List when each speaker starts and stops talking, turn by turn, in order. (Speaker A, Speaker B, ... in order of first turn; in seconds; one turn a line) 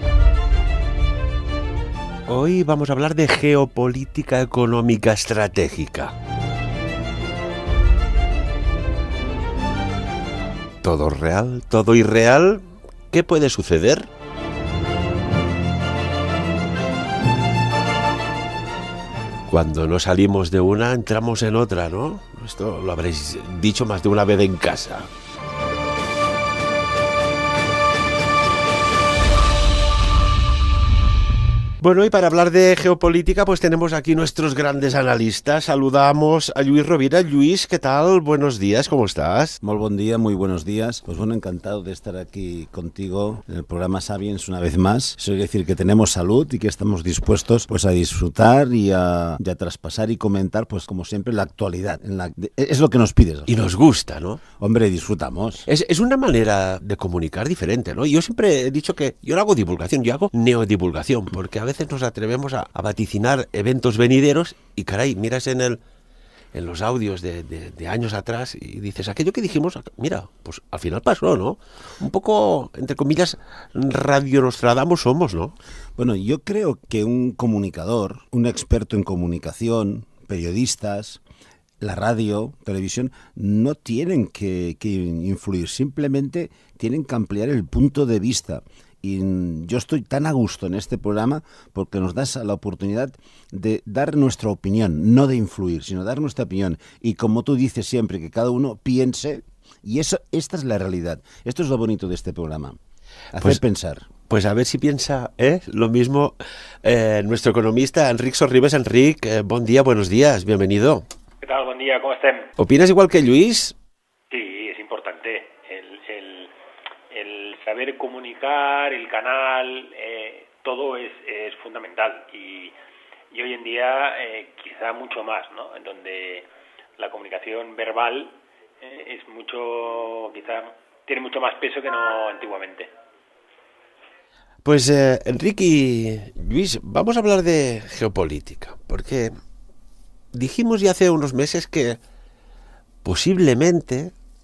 Speaker A: 2.3-6.1
Speaker A: 10.8-14.1
Speaker A: 19.5-25.1
Speaker A: 31.8-39.6
Speaker B: 39.6-53.5
Speaker A: 53.5-54.4
Speaker B: 54.6-55.7
Speaker A: 55.7-65.8
Speaker A: 66.5-75.6
Speaker B: 76.0-81.2
Speaker B: 81.8-102.8
Speaker B: 103.3-104.1
Speaker A: 104.3-111.1
Speaker C: 111.4-112.5
Speaker A: 112.6-113.8
Speaker C: 114.3-116.5
Speaker C: 117.1-122.8
Speaker C: 123.3-126.5
Speaker C: 127.0-132.9
Speaker A: 134.7-139.3
Speaker A: 140.3-142.0
Speaker A: 143.1-144.1